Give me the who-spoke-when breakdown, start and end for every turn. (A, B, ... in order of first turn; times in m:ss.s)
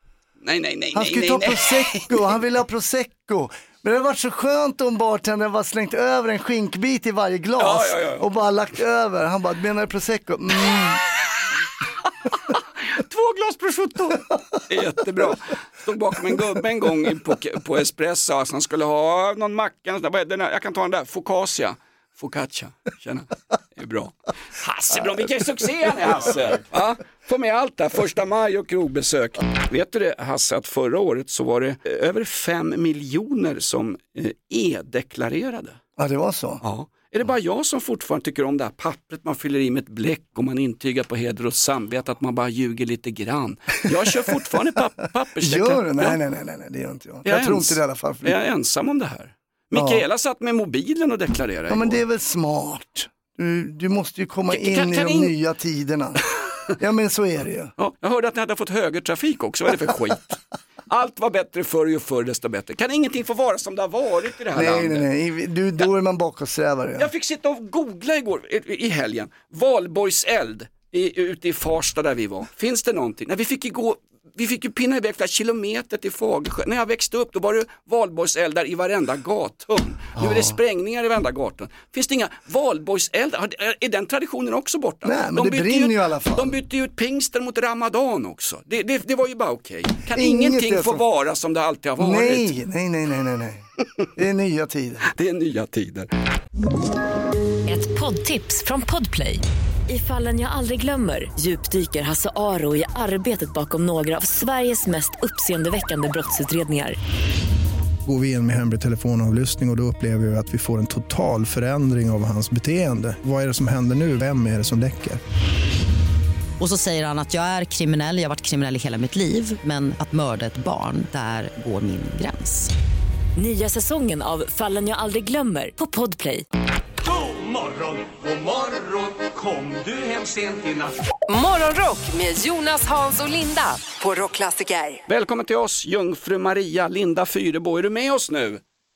0:00.4-0:02.2 A
0:00.9-0:11.0 B
0:07.6-0:08.3 A
0:12.3-0:35.8 A
0:36.0-0:36.6 B
0:36.6-0:46.2 A
0:45.4-0:48.4 B
0:47.2-0:52.0 A
0:49.7-0:50.0 B
0:51.7-0:56.2 B
0:54.5-0:55.4 A
0:56.7-0:57.7 B
0:57.8-1:05.1 A
1:04.5-1:07.1 B
1:07.0-1:32.5 A
1:20.2-1:20.6 B
1:25.0-1:26.6 B
1:30.1-1:31.0 B
1:32.0-1:35.1 B
1:35.1-1:36.1 A
1:37.7-1:47.0 C
1:48.1-1:55.2 D
1:56.6-2:02.7 E
2:03.4-2:06.4 C
2:07.0-2:11.0 F
2:11.3-2:15.0 G
2:15.1-2:18.6 A